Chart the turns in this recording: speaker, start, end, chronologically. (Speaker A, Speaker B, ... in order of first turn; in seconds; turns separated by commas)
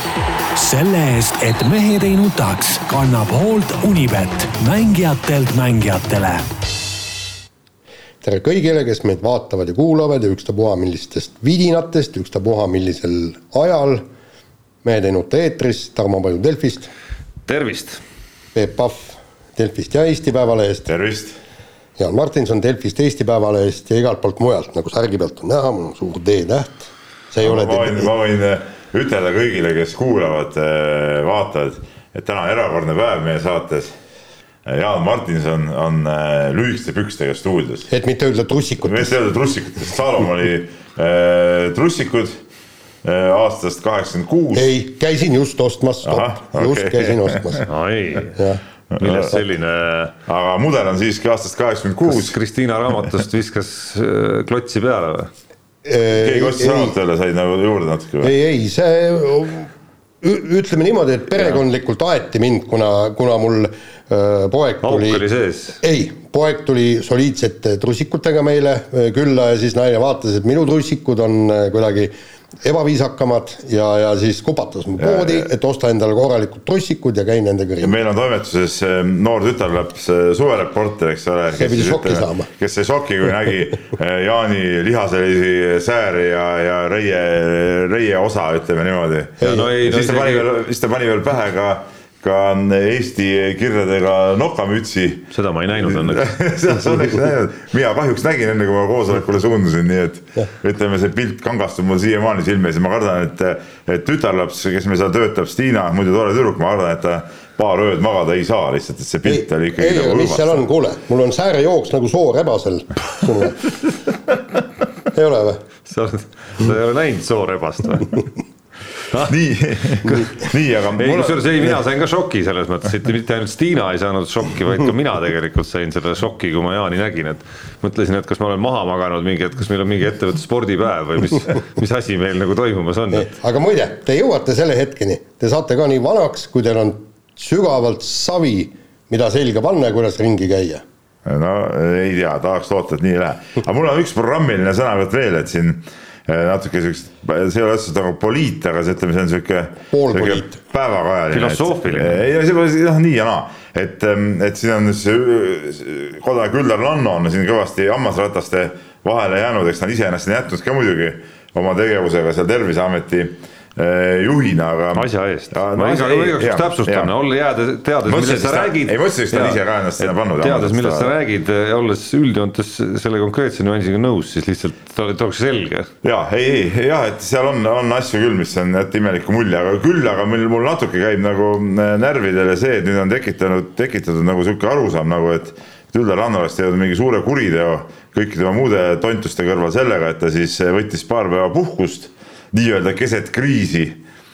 Speaker A: 0.6-6.4, Speaker B: 8.2-14.0, Speaker B: 14.8-16.9, Speaker C: 17.5-18.0, Speaker B: 18.6-20.9, Speaker D: 20.9-21.4, Speaker B: 22.0-28.1, Speaker D: 27.4-33.9, Speaker D: 34.7-37.9, Speaker B: 37.9-39.2, Speaker D: 38.8-42.4, Speaker D: 43.0-44.7, Speaker B: 44.5-47.7, Speaker D: 46.0-47.6, Speaker C: 47.7-48.4, Speaker D: 48.9-49.4, Speaker C: 49.0-50.1, Speaker D: 50.3-52.4, Speaker C: 52.1-55.3, Speaker B: 55.9-57.0, Speaker D: 56.1-58.3, Speaker B: 58.2-59.7, Speaker B: 60.2-65.2, Speaker C: 64.8-65.8, Speaker B: 65.8-72.1, Speaker B: 72.6-78.0, Speaker D: 75.0-75.5, Speaker D: 77.8-110.6, Speaker B: 81.6-82.5, Speaker B: 89.4-89.7, Speaker C: 89.4-90.5, Speaker C: 95.3-96.3, Speaker B: 109.3-113.6, Speaker B: 115.1-115.6, Speaker C: 115.9-118.3, Speaker D: 119.2-121.7, Speaker C: 121.0-133.3, Speaker B: 133.1-140.8, Speaker D: 141.2-167.1, Speaker B: 149.9-150.6, Speaker C: 151.3-152.2, Speaker C: 164.9-175.9, Speaker D: 168.1-171.2, Speaker D: 176.0-194.0